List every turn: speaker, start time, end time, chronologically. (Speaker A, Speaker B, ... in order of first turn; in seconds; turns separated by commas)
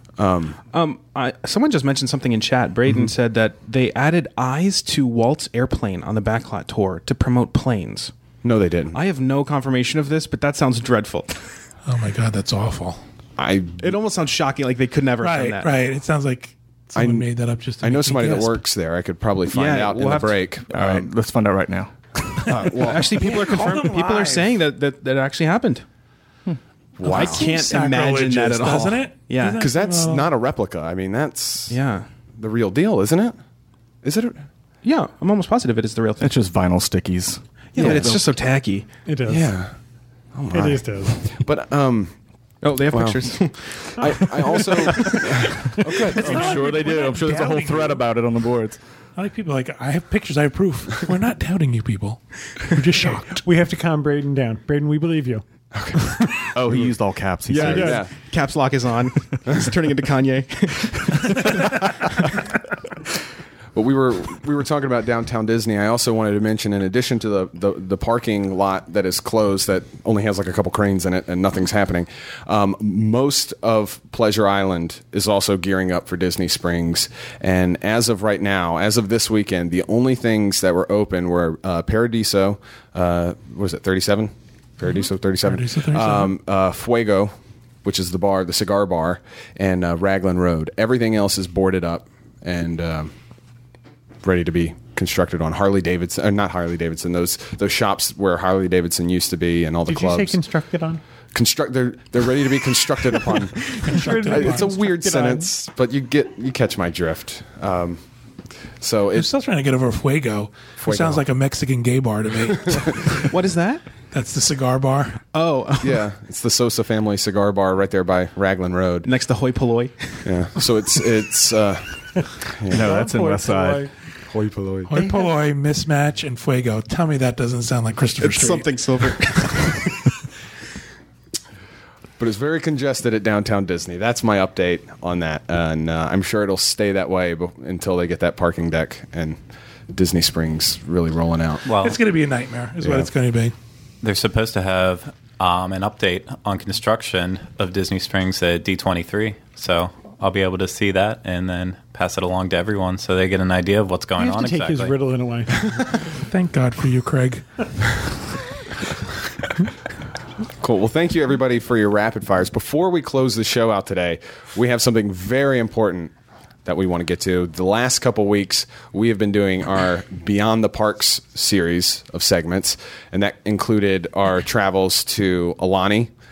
Speaker A: 0.2-0.6, Speaker B: 0.7-8.1, Speaker A: 8.4-9.0, Speaker B: 8.9-11.3, Speaker C: 11.8-13.0, Speaker A: 13.4-13.9, Speaker B: 13.8-15.8, Speaker C: 15.2-18.6, Speaker A: 16.9-17.3, Speaker A: 17.8-21.1, Speaker B: 19.5-20.4, Speaker D: 20.7-21.9, Speaker A: 22.4-23.1, Speaker B: 22.7-25.8, Speaker C: 23.2-24.5, Speaker A: 27.0-27.4, Speaker C: 27.0-30.3, Speaker B: 27.0-29.7, Speaker A: 29.6-31.8, Speaker B: 31.7-32.1, Speaker A: 32.4-33.4, Speaker A: 34.0-34.4, Speaker B: 34.8-36.3, Speaker D: 36.2-38.2, Speaker B: 37.7-38.9, Speaker A: 37.8-38.1, Speaker E: 39.0-39.5, Speaker A: 39.3-39.7, Speaker A: 40.3-42.1, Speaker E: 40.5-41.1, Speaker B: 42.6-45.7, Speaker A: 42.9-43.2, Speaker A: 43.8-46.5, Speaker C: 46.0-48.0, Speaker D: 46.2-48.8, Speaker C: 49.1-53.4, Speaker E: 53.3-55.4, Speaker A: 55.7-56.1, Speaker E: 56.0-56.5, Speaker D: 56.5-58.0, Speaker B: 57.5-62.3, Speaker A: 57.5-58.1, Speaker A: 63.7-87.3, Speaker C: 85.4-86.3, Speaker A: 87.8-93.1, Speaker A: 94.2-100.4, Speaker E: 99.9-101.0, Speaker A: 101.3-108.0, Speaker C: 103.8-104.7, Speaker E: 103.9-105.5, Speaker A: 108.8-109.3, Speaker C: 109.1-113.3, Speaker A: 110.8-111.2, Speaker B: 113.3-113.8, Speaker C: 114.1-115.2, Speaker B: 115.3-116.0, Speaker A: 115.8-119.1, Speaker B: 119.0-120.3, Speaker A: 120.2-123.0, Speaker D: 122.7-123.8, Speaker E: 122.7-123.9, Speaker A: 124.3-124.9, Speaker C: 124.9-129.4, Speaker E: 124.9-125.3, Speaker B: 128.2-130.1, Speaker A: 132.2-139.4, Speaker A: 139.9-141.6, Speaker F: 141.6-142.0, Speaker C: 141.7-143.5, Speaker A: 142.8-143.1, Speaker F: 144.0-154.9, Speaker E: 154.2-155.9, Speaker C: 156.2-157.4, Speaker A: 160.6-166.1, Speaker A: 166.6-176.1